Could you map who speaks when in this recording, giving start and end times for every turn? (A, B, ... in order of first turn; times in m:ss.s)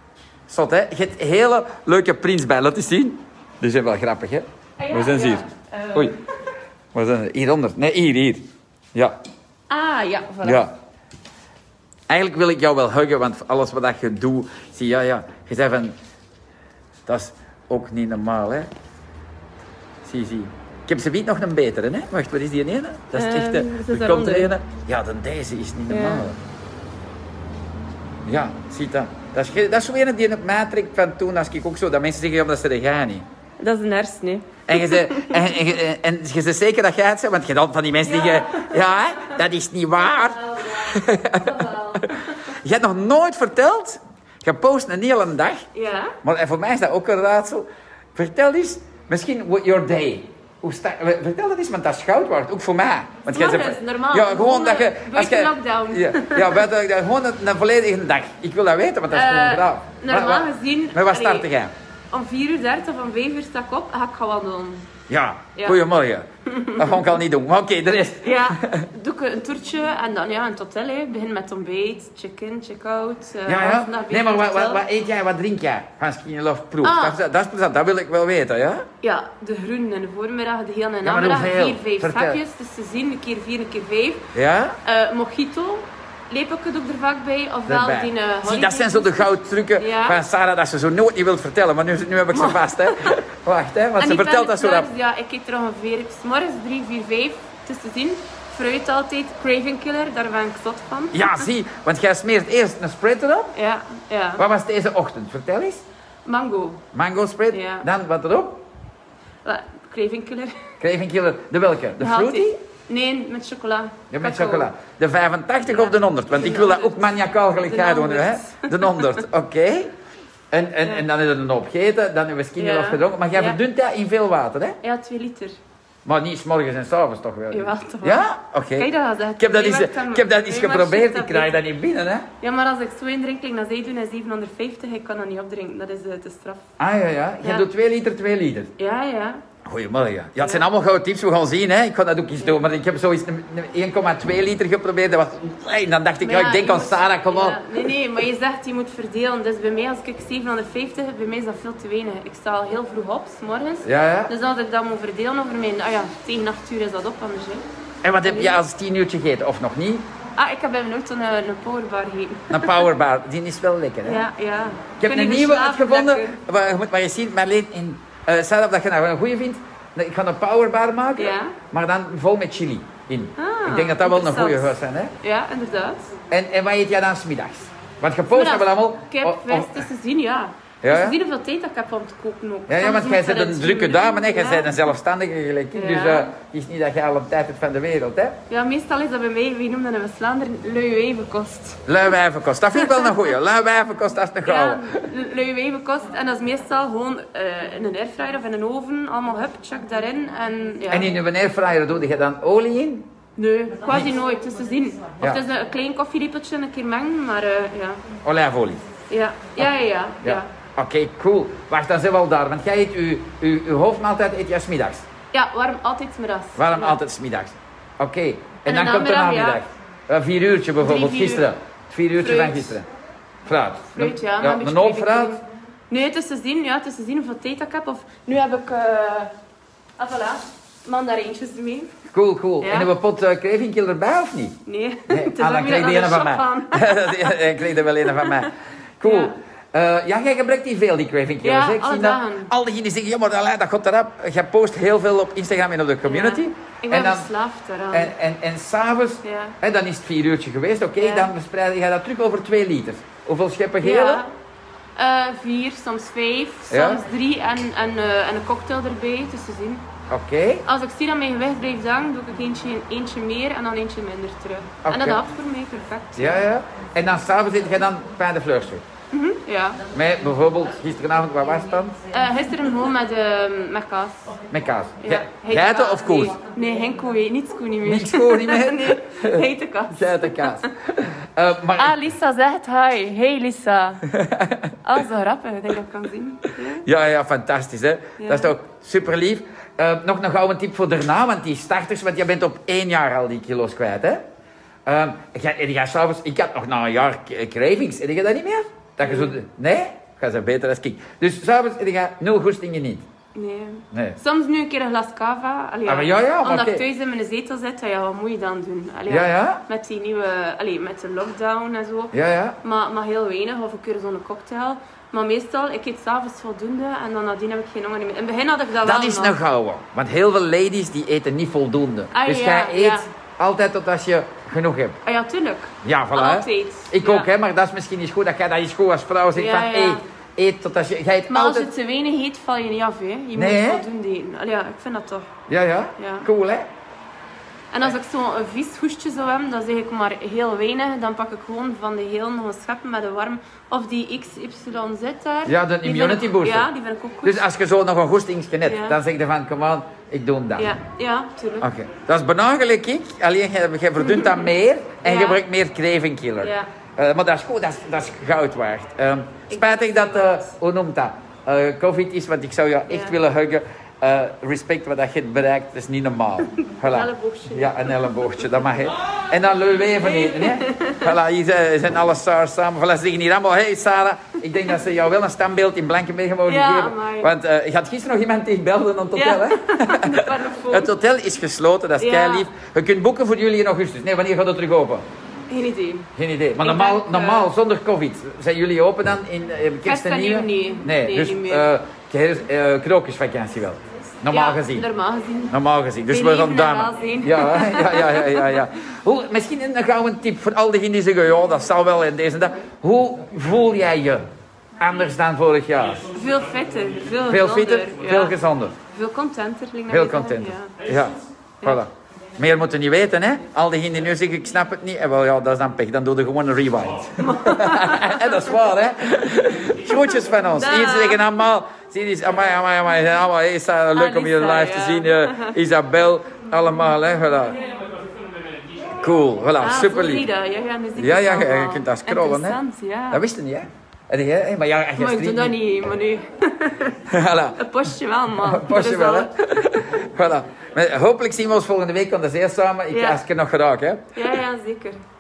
0:00.5-0:06.2 A
0:04.8-0:06.2 B
0:06.9-0:08.4 A
0:09.7-0:10.7 B
0:10.4-0:10.7 A
0:12.1-0:15.9 A
0:17.1-0:18.7 A
0:20.0-0:26.4 A
0:23.1-0:24.5 B
0:25.9-0:26.3 B
0:28.3-0:33.2 A
0:33.6-0:35.6 B
0:34.7-0:45.6 A
0:38.1-0:39.4 B
0:40.5-0:42.1 B
0:45.7-0:46.2 B
0:46.2-1:01.7 A
0:53.3-0:56.7 B
0:59.1-1:01.5 B
1:02.1-1:04.9 B
1:05.1-1:08.9 A
1:05.6-1:05.8 B
1:06.5-1:07.2 B
1:08.2-1:14.8 B
1:13.5-1:18.9 A
1:16.8-1:17.2 B
1:19.0-1:24.3 B
1:21.0-1:22.4 A
1:24.3-1:24.8 A
1:24.8-1:30.2 B
1:27.7-1:34.9 A
1:32.3-1:33.2 B
1:34.0-1:41.5 B
1:41.1-1:43.6 A
1:43.6-1:44.4 B
1:44.4-1:45.8 A
1:46.3-1:46.8 B
1:46.9-1:48.6 A
1:47.5-1:47.9 B
1:49.4-1:50.6 B
1:50.8-1:52.6 A
1:52.0-1:54.7 B
1:54.1-1:59.9 A
1:55.6-1:59.2 B
2:00.5-2:04.8 A
2:02.6-2:03.6 B
2:04.8-2:05.6 B
2:06.1-2:12.3 A
2:07.5-2:11.6 B
2:12.4-2:16.6 B
2:16.8-2:18.7 A
2:17.4-2:17.7 B
2:18.8-2:19.4 B
2:19.6-2:27.7 A
2:20.4-2:20.7 B
2:26.2-2:37.6 B
2:33.8-2:34.3 A
2:38.0-2:40.1 A
2:38.2-2:38.6 B
2:40.4-2:42.9 B
2:42.5-2:44.2 A
2:44.0-2:46.4 B
2:45.0-2:55.1 A
2:51.2-2:51.6 B
2:53.4-2:56.1 B
2:56.3-2:59.8 A
2:58.3-3:04.9 B
3:00.8-3:01.2 A
3:02.7-3:08.4 A
3:05.7-3:06.3 B
3:08.5-3:12.1 B
3:11.9-3:14.9 A
3:12.7-3:13.3 B
3:14.4-3:21.1 B
3:20.9-3:23.0 A
3:23.4-3:28.0 B
3:28.2-3:28.9 A
3:29.1-3:30.5 B
3:30.2-3:35.1 A
3:35.3-3:37.0 B
3:36.6-3:42.9 A
3:38.6-3:39.6 B
3:40.8-3:41.5 B
3:42.2-3:42.8 B
3:43.5-3:45.4 A
3:43.9-3:49.3 B
3:50.0-3:52.0 B
3:52.1-3:54.6 A
3:52.6-3:52.9 B
3:54.7-3:57.4 B
3:55.1-4:07.3 A
3:58.0-3:58.5 B
3:59.0-3:59.4 B
4:01.4-4:02.5 B
4:06.0-4:08.1 B
4:07.9-4:14.2 A
4:09.2-4:09.6 B
4:11.0-4:11.3 B
4:13.8-4:14.3 B
4:15.0-4:19.8 B
4:16.7-4:17.0 A
4:20.1-4:20.6 A
4:20.7-4:26.4 B
4:24.8-4:25.2 A
4:26.2-4:28.8 A
4:29.1-4:29.9 B
4:29.9-4:32.0 A
4:32.1-4:34.2 B
4:34.5-4:36.4 A
4:35.0-4:40.7 B
4:37.8-4:42.0 A
4:41.8-4:44.1 B
4:44.1-4:44.8 A
4:44.8-4:46.9 B
4:46.8-4:54.2 A
4:48.2-4:48.6 B
4:54.9-5:03.0 A
4:59.0-4:59.4 B
5:03.3-5:19.4 B
5:03.9-5:04.2 A
5:05.9-5:06.8 A
5:09.1-5:09.6 A
5:12.1-5:12.6 A
5:18.8-5:25.0 A
5:22.1-5:23.1 B
5:25.0-5:27.3 B
5:25.8-5:31.7 A
5:29.4-5:30.0 B
5:31.3-5:35.3 B
5:33.4-5:33.8 A
5:35.5-5:36.7 A
5:36.0-5:36.3 B
5:37.7-5:47.5 B
5:45.4-5:46.7 A
5:47.2-5:50.7 A
5:48.6-5:49.0 B
5:50.6-5:51.7 B
5:51.6-6:25.0 A
5:54.0-5:54.5 B
5:55.0-5:55.4 B
5:56.4-5:56.7 B
5:59.5-6:00.5 B
6:02.9-6:03.2 B
6:06.5-6:08.4 B
6:10.0-6:11.1 B
6:16.4-6:17.3 B
6:19.1-6:20.9 B
6:22.0-6:22.5 B
6:25.5-6:27.5 B
6:26.2-6:34.9 A
6:29.8-6:31.7 B
6:34.3-6:35.6 B
6:35.5-6:44.2 A
6:36.1-6:38.6 B
6:44.8-6:46.1 A
6:46.1-6:50.8 B
6:47.3-6:48.8 A
6:49.9-7:07.6 A
6:57.2-6:58.5 B
7:00.6-7:01.3 B
7:03.9-7:05.6 B
7:09.0-7:10.3 A
7:09.6-7:13.2 B
7:11.0-7:12.6 A
7:13.1-7:15.6 A
7:15.0-7:17.0 B
7:17.0-7:17.6 A
7:17.5-7:19.4 B
7:18.4-7:24.2 A
7:22.9-7:23.2 B
7:24.2-7:25.0 B